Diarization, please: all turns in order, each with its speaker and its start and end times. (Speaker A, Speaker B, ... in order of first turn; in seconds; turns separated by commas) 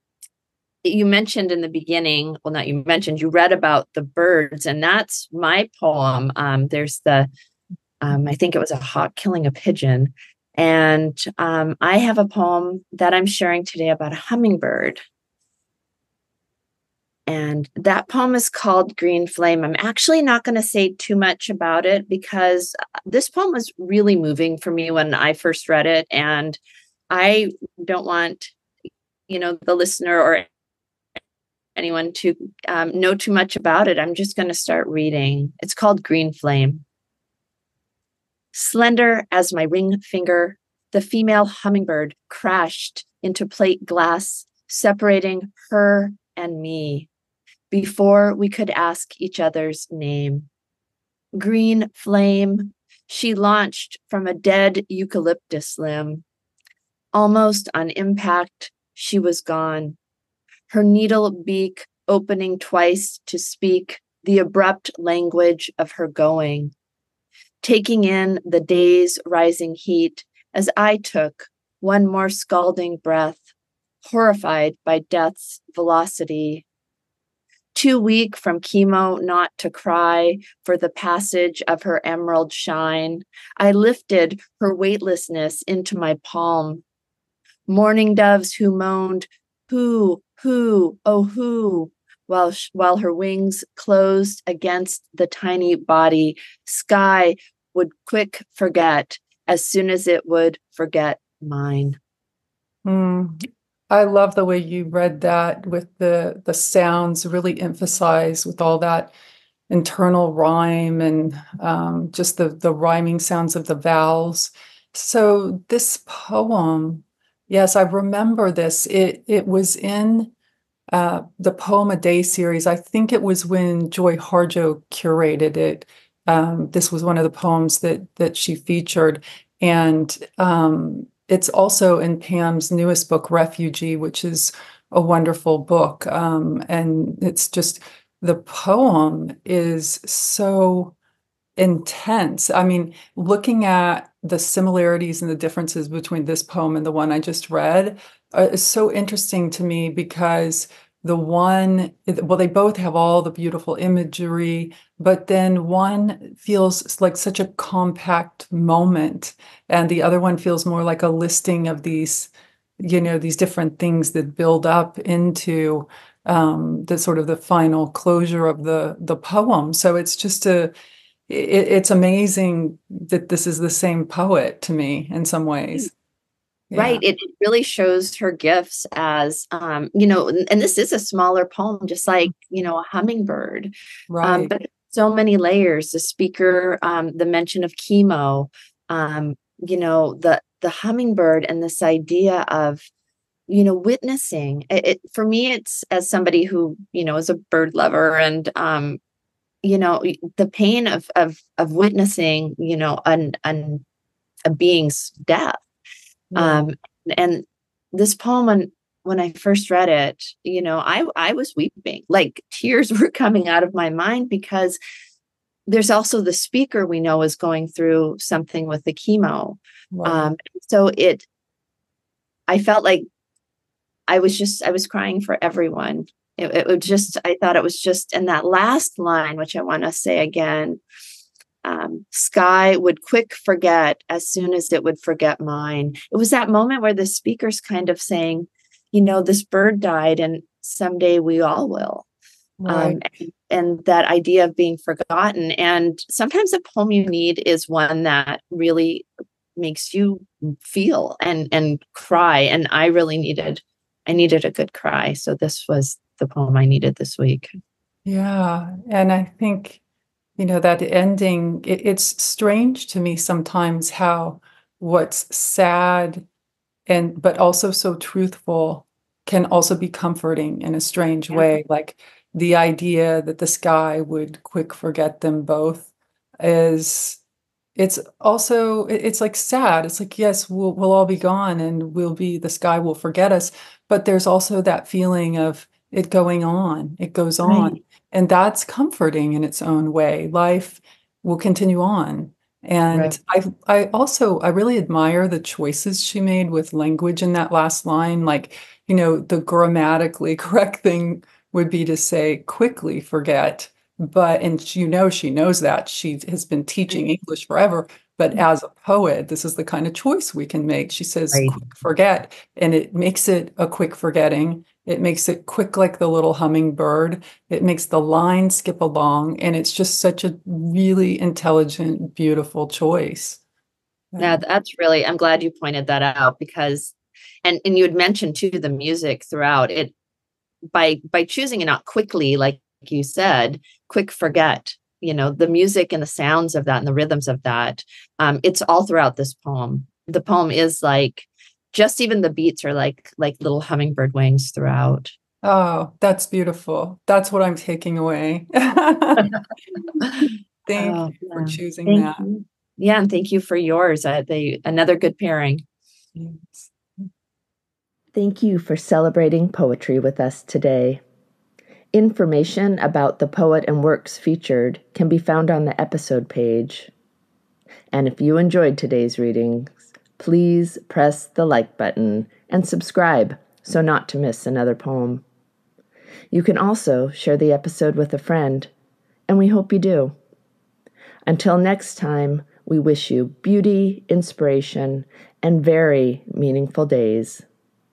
Speaker A: 0.8-7.3, Speaker A: 8.0-15.0, Speaker A: 17.3-26.6, Speaker A: 27.1-28.5, Speaker A: 29.3-30.5, Speaker A: 31.8-36.9, Speaker A: 38.5-47.1, Speaker A: 47.7-50.5, Speaker A: 51.4-56.2, Speaker A: 57.1-60.0, Speaker A: 60.7-66.7, Speaker A: 67.6-73.4, Speaker A: 74.0-76.7, Speaker A: 77.8-86.8, Speaker A: 87.7-102.0, Speaker B: 102.8-103.4, Speaker B: 103.9-109.1, Speaker B: 109.7-120.3, Speaker B: 120.9-140.9, Speaker B: 141.6-170.7, Speaker B: 171.3-175.9, Speaker B: 176.7-177.0, Speaker A: 176.7-192.8, Speaker B: 184.1-184.5, Speaker A: 193.5-199.0, Speaker A: 199.6-203.8, Speaker A: 204.5-205.6, Speaker B: 206.3-206.7, Speaker A: 206.4-214.8, Speaker A: 215.7-221.3, Speaker B: 219.9-220.3, Speaker A: 222.5-223.1, Speaker A: 224.1-230.8, Speaker A: 231.6-242.1, Speaker B: 242.6-243.0, Speaker A: 242.7-257.5, Speaker B: 258.1-259.8, Speaker B: 260.4-266.3, Speaker B: 266.9-275.9, Speaker B: 276.4-277.2, Speaker B: 277.8-323.4, Speaker A: 287.4-287.8, Speaker A: 292.9-293.2, Speaker A: 311.3-311.6, Speaker B: 324.1-324.4, Speaker A: 324.2-329.9, Speaker A: 330.7-345.1, Speaker B: 345.4-349.3, Speaker A: 350.0-355.6, Speaker B: 350.2-352.2, Speaker B: 356.2-357.0, Speaker C: 358.1-361.0, Speaker A: 359.3-359.6, Speaker C: 361.9-366.9, Speaker A: 364.0-364.3, Speaker A: 365.5-366.9, Speaker C: 367.9-369.5, Speaker A: 368.8-375.2, Speaker C: 370.2-375.1, Speaker A: 376.3-378.7, Speaker C: 376.4-376.6, Speaker C: 378.1-378.4, Speaker C: 379.3-379.8, Speaker A: 379.3-380.1, Speaker A: 381.3-387.4, Speaker C: 382.0-386.4